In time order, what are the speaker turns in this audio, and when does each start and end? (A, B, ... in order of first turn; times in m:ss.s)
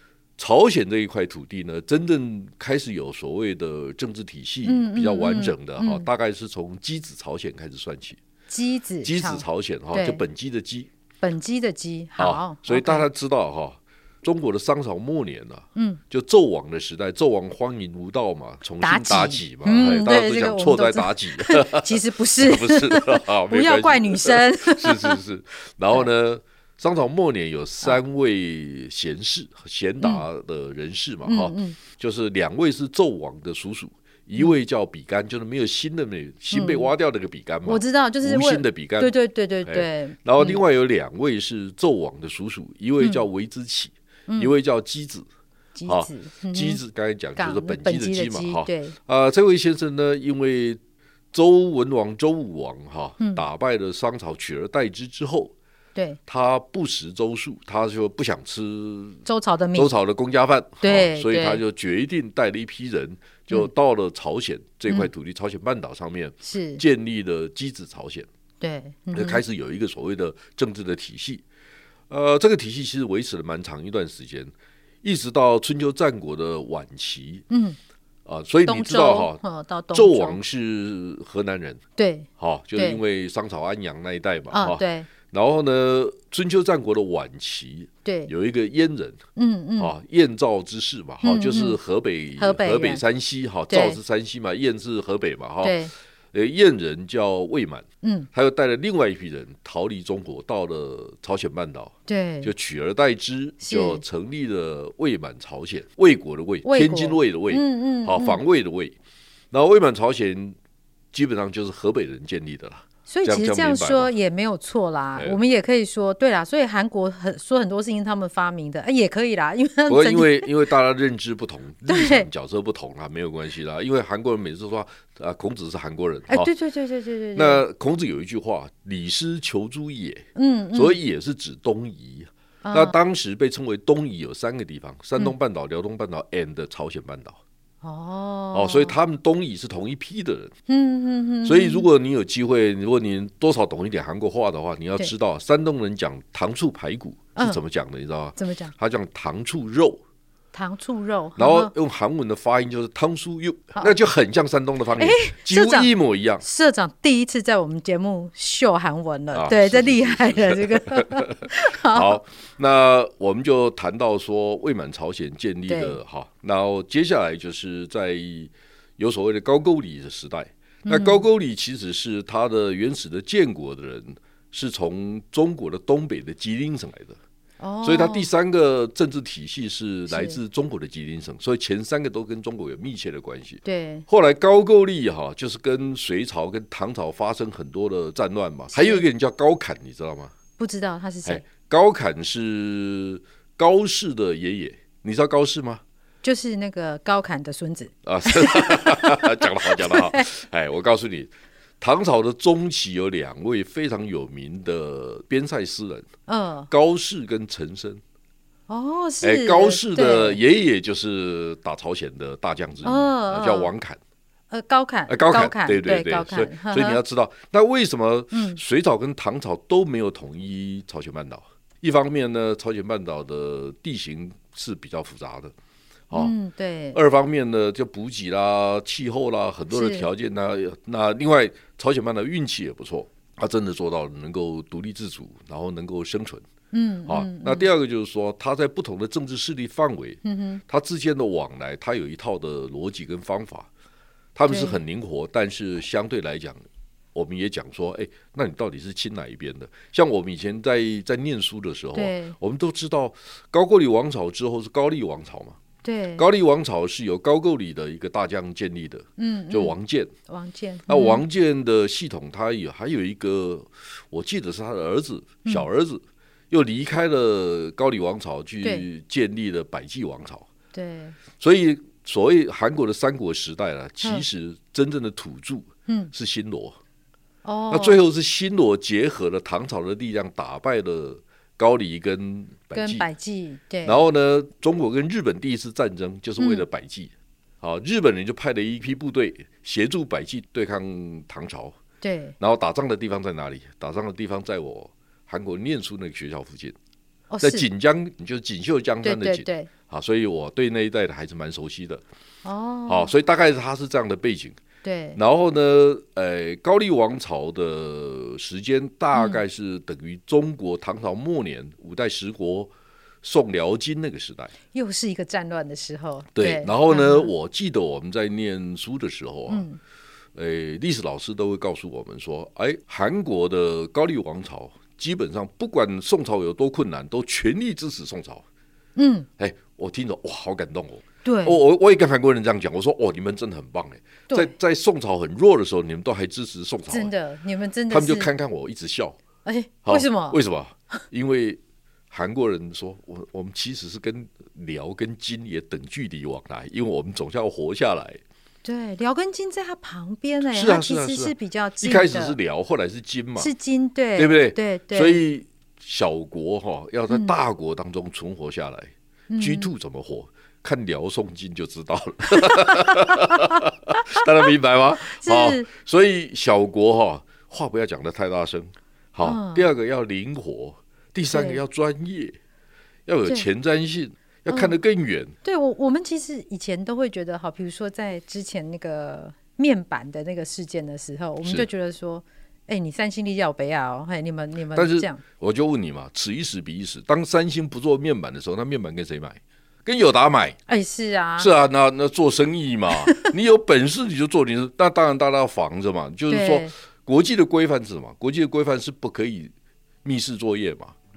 0:00.4-0:08.2 A
0:04.6-0:06.1 B
0:08.5-0:10.2 B
0:09.0-0:10.9 A
0:11.2-0:13.1 B
0:12.2-0:45.3 A
0:15.8-0:16.0 B
0:18.8-0:25.2 B
0:31.3-0:31.8 B
0:36.5-0:36.9 B
0:37.6-0:40.6 B
0:44.3-0:44.5 B
0:45.8-0:46.8 B
0:45.9-0:50.8 A
0:47.4-0:49.0 B
0:51.3-0:55.5 A
0:53.2-0:53.4 B
0:56.3-0:59.2 A
0:59.2-0:59.9 B
0:59.8-1:08.3 A
1:00.8-1:01.6 B
1:06.4-1:06.8 B
1:08.6-1:09.4 B
1:09.1-1:11.4 A
1:12.1-1:17.4 A
1:17.5-1:17.8 B
1:18.3-1:19.4 A
1:18.7-1:20.4 B
1:19.9-1:21.8 A
1:22.0-1:23.0 B
1:22.4-1:29.2 A
1:24.5-1:25.1 B
1:28.0-1:28.3 B
1:29.4-1:29.9 B
1:29.8-1:35.8 A
1:31.2-1:31.8 B
1:32.4-1:33.0 B
1:33.7-1:34.0 B
1:35.6-1:35.9 B
1:36.3-1:49.0 A
1:38.0-1:38.3 B
1:42.1-1:42.5 B
1:43.6-1:44.0 B
1:46.6-1:48.4 B
1:49.5-1:50.6 A
1:51.1-1:54.1 A
1:53.1-2:00.5 B
1:59.9-2:06.5 A
2:01.9-2:02.3 B
2:06.3-2:07.6 B
2:07.4-2:17.4 A
2:10.4-2:11.0 B
2:12.6-2:13.0 B
2:17.8-2:19.0 B
2:18.5-2:20.5 A
2:20.7-2:21.9 B
2:21.4-2:30.0 A
2:28.4-2:28.7 B
2:30.5-2:31.7 B
2:31.4-2:36.4 A
2:35.0-2:35.9 B
2:36.4-2:42.2 B
2:39.3-2:57.2 A
2:45.7-2:46.0 B
2:50.9-2:51.2 B
2:57.6-2:58.3 B
2:57.8-3:10.3 A
3:00.1-3:00.4 B
3:03.6-3:04.1 B
3:08.7-3:09.0 B
3:10.6-3:11.4 B
3:11.2-3:15.8 A
3:16.2-3:20.3 B
3:18.0-3:26.1 A
3:26.3-3:26.7 B
3:26.7-3:28.0 A
3:28.7-3:30.4 B
3:29.2-3:34.0 A
3:32.8-3:33.7 B
3:34.5-3:37.0 B
3:35.1-3:45.5 A
3:38.3-3:38.6 B
3:46.1-3:47.0 B
3:46.9-3:56.4 A
3:49.7-3:50.1 B
3:56.7-3:57.7 B
3:57.1-4:03.7 A
4:00.2-4:00.6 B
4:04.4-4:06.6 A
4:04.5-4:04.8 B
4:07.1-4:15.6 A
4:11.9-4:12.4 B
4:15.8-4:16.2 B
4:16.2-4:20.1 A
4:19.2-4:19.8 B
4:20.3-4:21.2 B
4:20.9-4:30.5 A
4:30.7-4:31.2 B
4:31.4-4:36.8 A
4:35.9-4:36.1 B
4:37.4-4:38.0 B
4:37.7-4:43.0 A
4:42.7-4:44.0 B
4:43.8-4:51.8 A
4:46.4-4:46.6 B
4:52.0-4:52.4 B
4:52.4-4:56.8 A
4:57.3-4:57.7 B
4:57.4-5:02.0 A
4:59.0-4:59.7 B
5:02.4-5:03.1 B
5:02.9-5:04.6 A
5:04.8-5:05.2 B
5:05.2-5:12.7 A
5:09.1-5:09.4 B
5:13.2-5:14.5 A
5:14.7-5:17.3 B
5:16.4-5:19.7 A
5:19.5-5:19.8 B
5:20.4-5:28.4 A
5:29.0-5:29.3 B
5:29.4-5:37.1 A
5:31.2-5:31.6 B
5:36.9-5:38.3 B
5:37.9-5:39.2 A
5:39.4-5:40.4 B
5:39.8-5:48.2 A
5:48.6-5:52.4 B
5:50.5-5:53.5 A
5:53.4-5:55.2 B
5:54.2-6:12.4 A
5:59.3-5:59.7 B
6:02.7-6:03.5 B
6:05.0-6:05.7 B
6:09.2-6:09.7 B
6:11.3-6:11.6 B
6:13.1-6:15.4 A
6:14.5-6:14.8 B
6:15.4-6:25.2 B
6:24.7-6:30.6 A
6:30.7-6:31.5 B
6:31.4-6:39.5 A
6:36.3-6:36.7 B
6:40.0-6:40.9 A